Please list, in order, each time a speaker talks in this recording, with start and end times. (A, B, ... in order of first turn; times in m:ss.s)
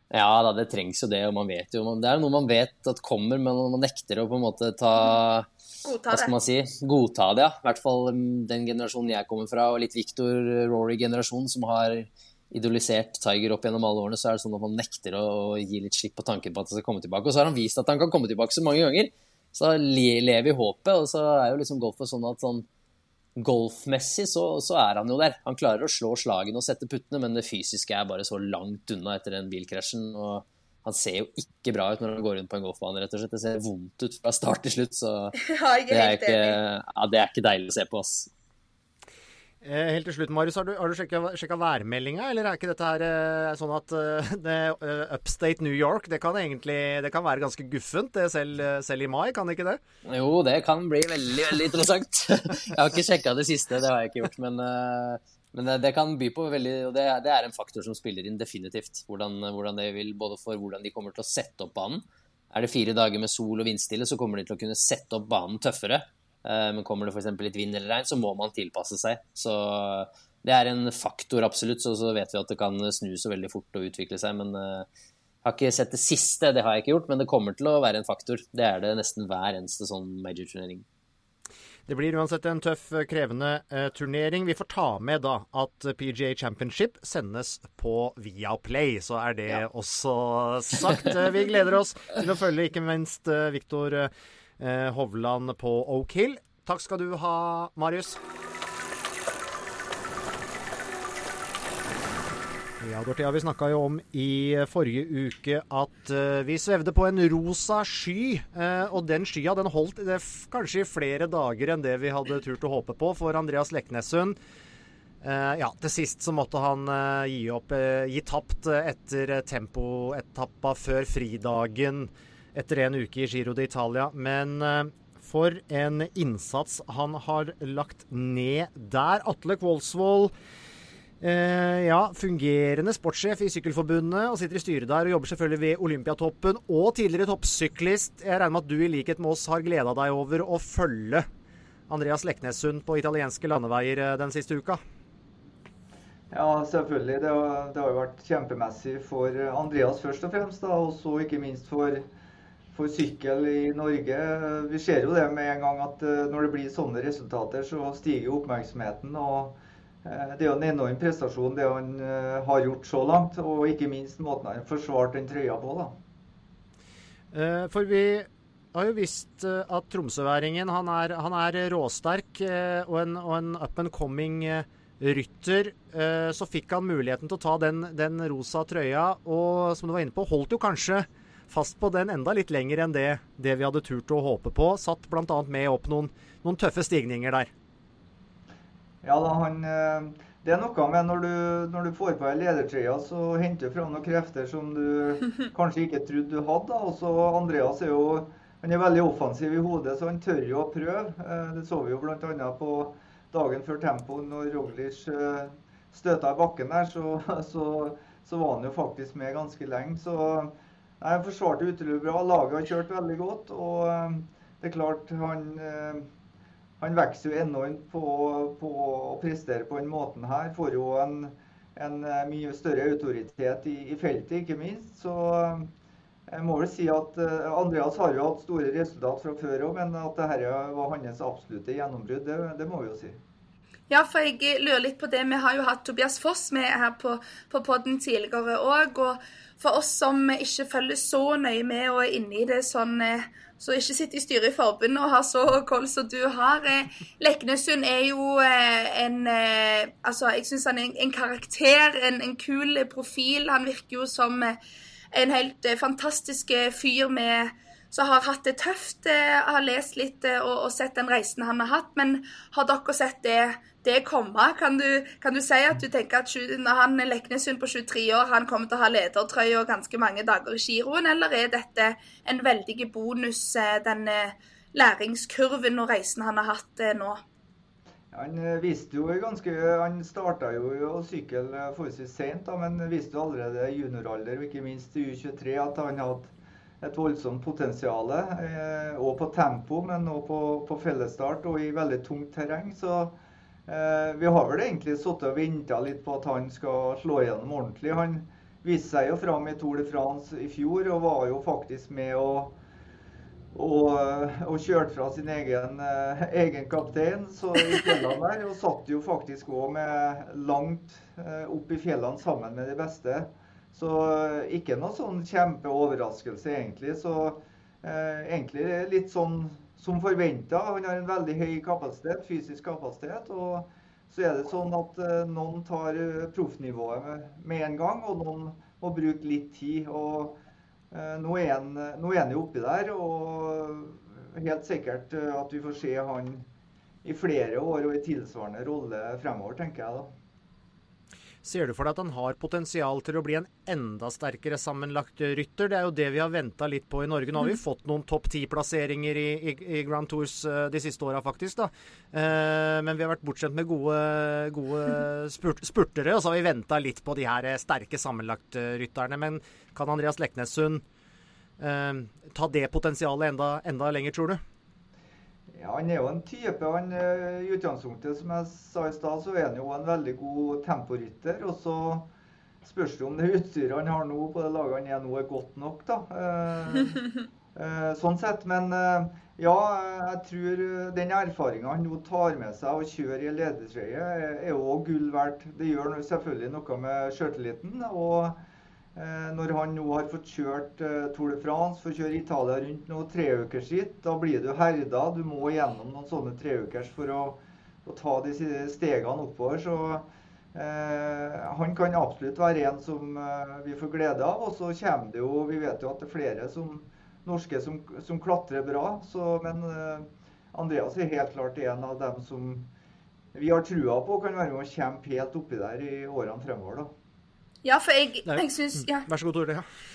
0:00.1-0:05.5 A
0:05.8-0:06.3 B
0:06.1-0:22.6 A
0:23.4-0:35.3 A
0:35.4-0:36.6 B
0:35.9-0:38.3 A
0:39.6-0:49.8 C
0:50.0-1:14.8 A
1:15.4-1:20.8 A
1:21.9-1:38.2 C
1:42.8-1:54.4 C
1:55.2-2:10.3 C
2:11.2-2:21.2 C
2:21.9-2:24.8 C
2:26.3-2:32.0 D
2:32.7-2:46.0 D
2:47.3-3:07.5 C
3:09.0-3:36.1 D
3:36.8-3:45.7 D
3:46.3-3:53.2 D
3:53.9-4:14.6 B
4:15.1-4:37.2 B
4:38.1-4:53.2 D
4:53.7-5:02.6 D
5:03.5-5:36.4 D
5:37.0-5:40.1 D
5:41.4-6:00.8 C
6:01.6-6:04.4 C
6:05.5-6:12.1 D
6:12.6-6:28.4 D
6:28.9-6:52.7 D
6:53.3-6:56.9 D
6:57.6-6:59.1 B
6:58.2-6:59.6 C